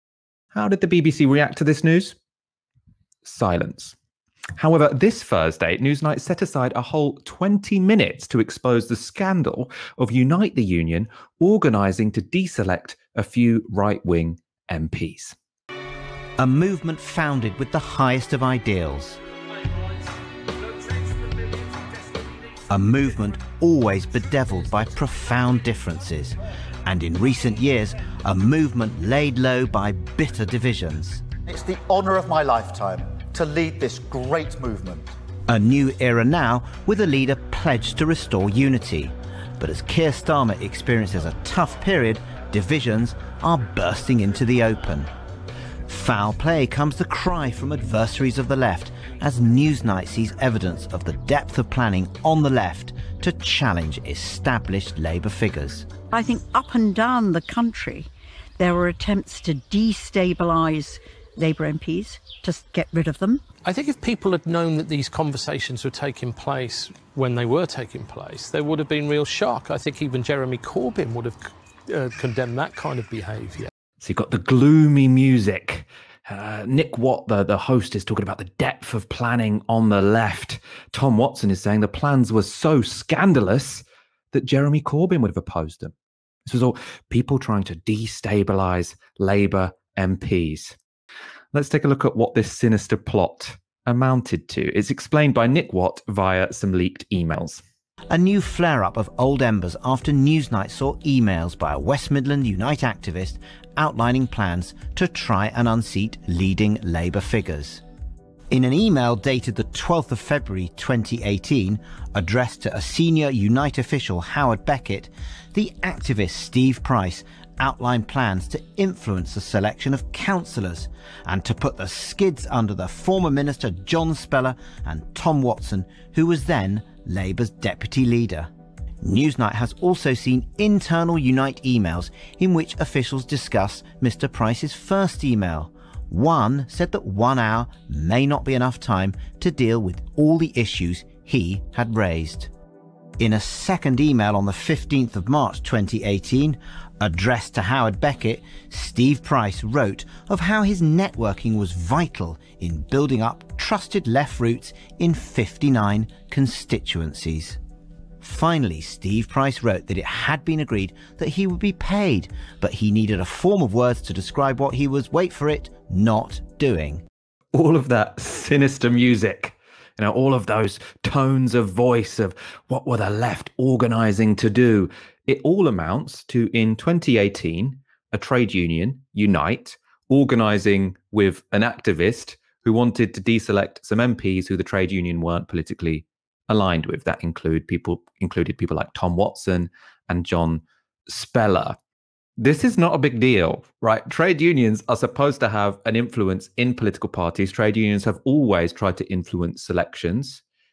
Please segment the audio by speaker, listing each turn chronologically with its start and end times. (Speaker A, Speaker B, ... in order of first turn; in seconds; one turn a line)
Speaker A: 0.5-2.2
Speaker A: 3.2-4.0
Speaker A: 4.6-15.4
Speaker B: 16.4-19.2
Speaker B: 22.7-31.3
Speaker C: 31.4-35.1
Speaker B: 35.5-45.1
Speaker B: 45.9-55.9
Speaker D: 56.1-63.4
Speaker E: 63.6-73.7
Speaker A: 74.0-85.9
Speaker A: 86.5-90.8
Speaker A: 91.5-97.6
Speaker B: 98.1-107.8
Speaker B: 108.5-128.5
Speaker B: 129.0-142.5
Speaker B: 143.2-157.6
Speaker B: 158.2-167.1
Speaker A: 167.5-191.8
Speaker A: 192.4-200.4